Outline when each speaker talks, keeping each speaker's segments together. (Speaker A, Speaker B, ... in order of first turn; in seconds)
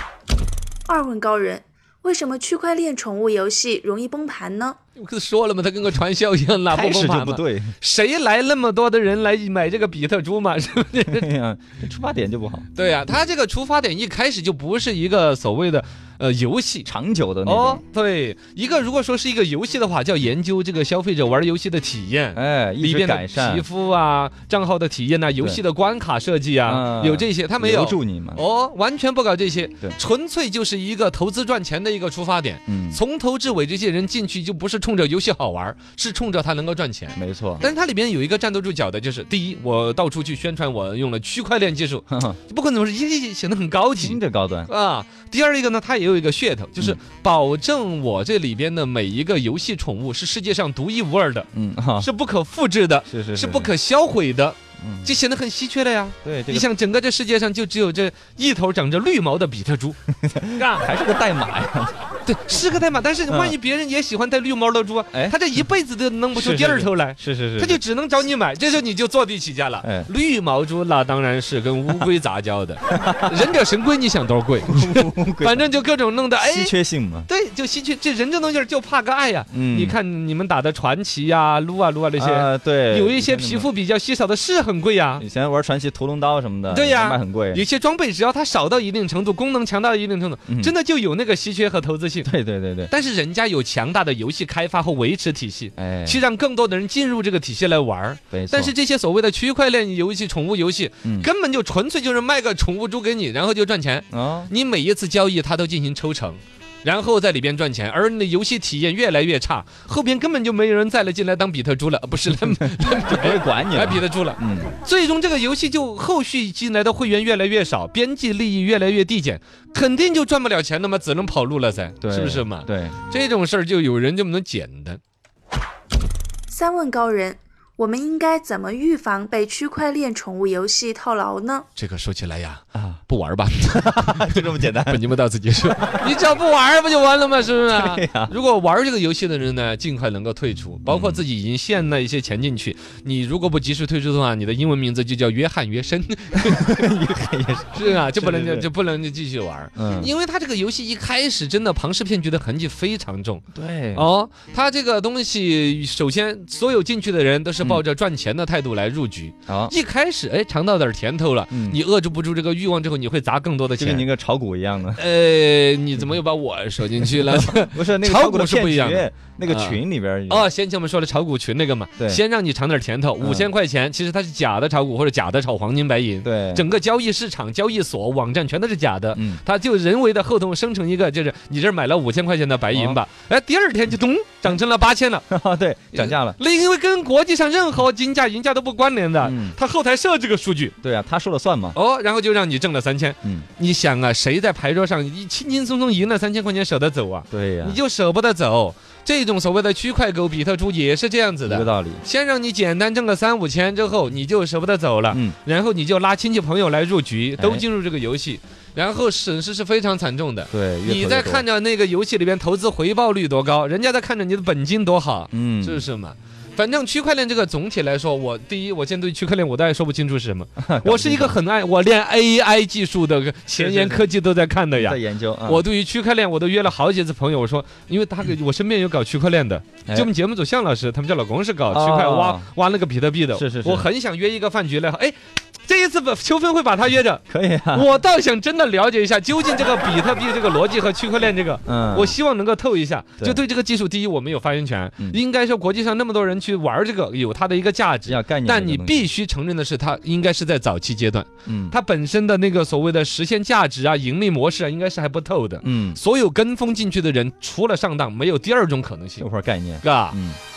Speaker A: 0.9-4.8, 126.5-131.7
Speaker B: 5.0-11.3, 12.8-16.9, 17.5-51.5, 52.0-60.0, 60.5-60.9, 62.2-76.7, 77.3-85.2, 86.7-92.3, 92.9-125.0, 131.8-146.9, 147.7-153.4, 153.9-164.1, 165.0-185.2, 185.9-190.8, 191.8-259.3, 259.8-260.2
Speaker C: 6.7-7.8, 11.1-12.7, 16.9-17.8, 22.4-23.6, 26.6-28.4, 32.7-33.0, 37.2-37.7, 42.1-42.4, 44.0-44.7, 51.5-52.1, 53.1-53.7, 54.8-55.2, 56.2-56.7, 60.2-62.0, 63.3-63.6, 66.3-67.8, 69.8-70.1, 72.9-73.4, 74.7-75.7, 76.5-77.3, 79.5-80.0, 82.2-83.7, 85.2-87.6, 90.5-90.7, 92.2-92.9, 95.8-96.2, 98.3-98.7, 101.0-101.3, 104.1-104.5, 112.3-114.7, 122.0-123.0, 133.7-135.1, 135.6-136.2, 137.7-138.3, 140.9-141.2, 146.3-148.7, 149.8-150.1, 153.5-154.1, 159.5-159.7, 161.5-161.8, 163.8-165.0, 167.0-170.5, 173.2-173.5, 176.2-176.7, 179.2-179.4, 182.7-183.0, 185.3-186.4, 189.2-189.6, 190.8-191.8, 197.3-197.8, 201.5-202.0, 205.1-205.4, 207.4-207.6, 210.5-211.4, 215.3-215.8, 220.6-221.4, 223.6-224.1, 224.8-225.7, 231.7-232.5, 233.3-233.9, 237.3-237.9, 241.7-242.2, 248.1-249.1, 251.5-251.8, 255.6-256.0, 259.2-260.4